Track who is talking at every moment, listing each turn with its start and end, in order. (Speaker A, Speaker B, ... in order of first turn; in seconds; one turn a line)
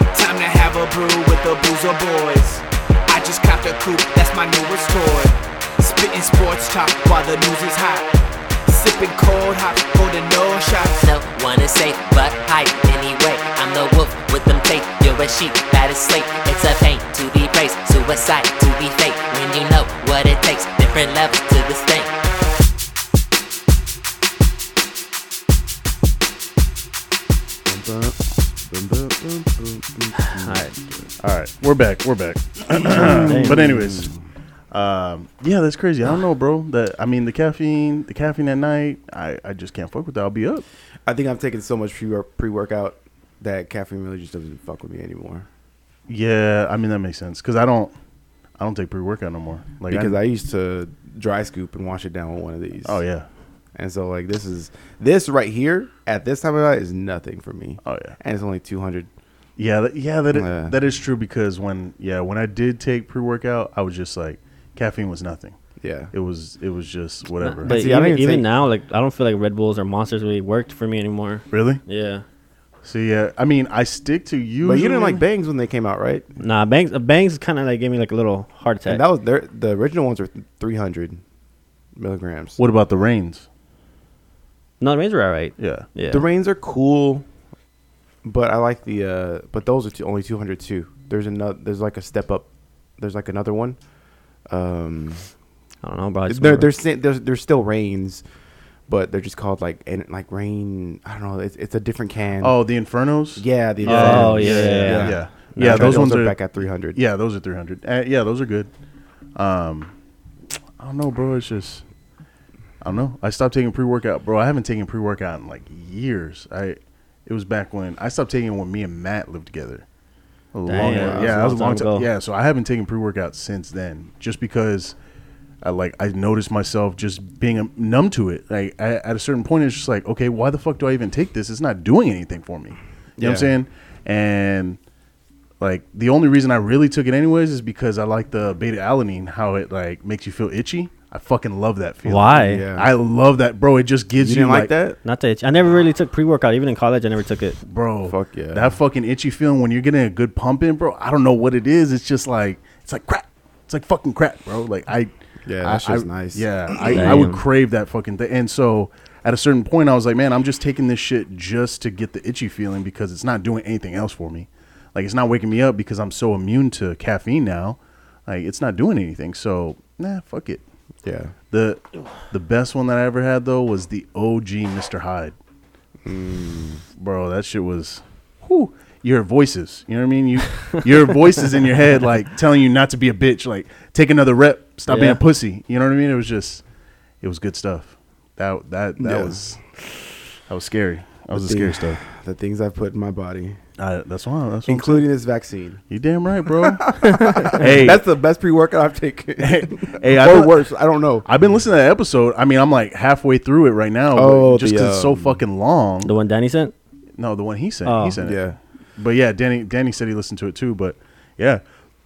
Speaker A: 0.1-8.2
Speaker A: 8.7-11.0
Speaker B: 11.0-22.2
Speaker C: 27.7-31.1
Speaker D: 30.2-30.7
Speaker E: 31.2-34.1
Speaker C: 32.8-34.2
Speaker D: 33.0-33.7
Speaker E: 34.7-40.7
Speaker C: 41.1-45.5
Speaker E: 46.1-47.9
Speaker E: 48.6-50.2
Speaker C: 49.9-53.0
Speaker E: 52.9-53.3
Speaker C: 53.8-59.1
Speaker E: 57.9-58.2
Speaker E: 59.6-65.6
Speaker C: 60.3-60.8
Speaker C: 65.8-66.1
Speaker E: 66.1-67.8
Speaker D: 67.4-72.2
Speaker C: 67.6-68.5
Speaker E: 71.5-71.8
Speaker E: 72.8-75.2
Speaker C: 74.6-76.3
Speaker D: 76.4-79.0
Speaker C: 78.9-81.2
Speaker C: 82.0-82.6
Speaker E: 82.6-83.5
Speaker D: 84.8-86.2
Speaker E: 85.6-85.9
Speaker C: 86.1-87.3
Speaker C: 88.2-92.5
Speaker C: 93.0-93.8
Speaker C: 94.5-95.3
Speaker D: 95.8-96.7
Speaker C: 96.3-98.2
Speaker C: 98.9-102.6
Speaker E: 102.4-106.4
Speaker C: 103.4-107.0
Speaker D: 103.8-106.0
Speaker E: 106.9-108.7
Speaker E: 109.4-109.9
Speaker E: 110.8-111.8
Speaker E: 112.8-119.8
Speaker E: 120.5-125.0
Speaker D: 120.7-122.1
Speaker C: 120.8-121.6
Speaker E: 125.6-134.8
Speaker C: 133.2-133.5
Speaker E: 135.6-144.7
Speaker D: 142.1-142.6
Speaker C: 142.3-142.9
Speaker C: 144.2-145.0
Speaker D: 145.1-147.6
Speaker E: 147.6-155.1
Speaker C: 148.1-148.8
Speaker C: 155.4-157.3
Speaker E: 155.6-170.6
Speaker D: 156.9-157.4
Speaker C: 171.0-171.3
Speaker E: 171.5-175.4
Speaker C: 176.0-176.8
Speaker E: 177.0-186.6
Speaker D: 184.9-185.2
Speaker E: 187.2-189.6
Speaker C: 189.0-189.4
Speaker E: 190.5-192.0
Speaker C: 191.3-193.6
Speaker E: 193.8-195.0
Speaker C: 194.7-195.8
Speaker E: 195.9-198.0
Speaker C: 196.5-201.3
Speaker D: 197.2-197.5
Speaker E: 199.4-200.6
Speaker E: 201.2-206.1
Speaker C: 204.2-205.4
Speaker D: 206.0-206.7
Speaker E: 207.2-208.4
Speaker D: 207.8-208.2
Speaker C: 208.2-208.6
Speaker E: 209.0-211.6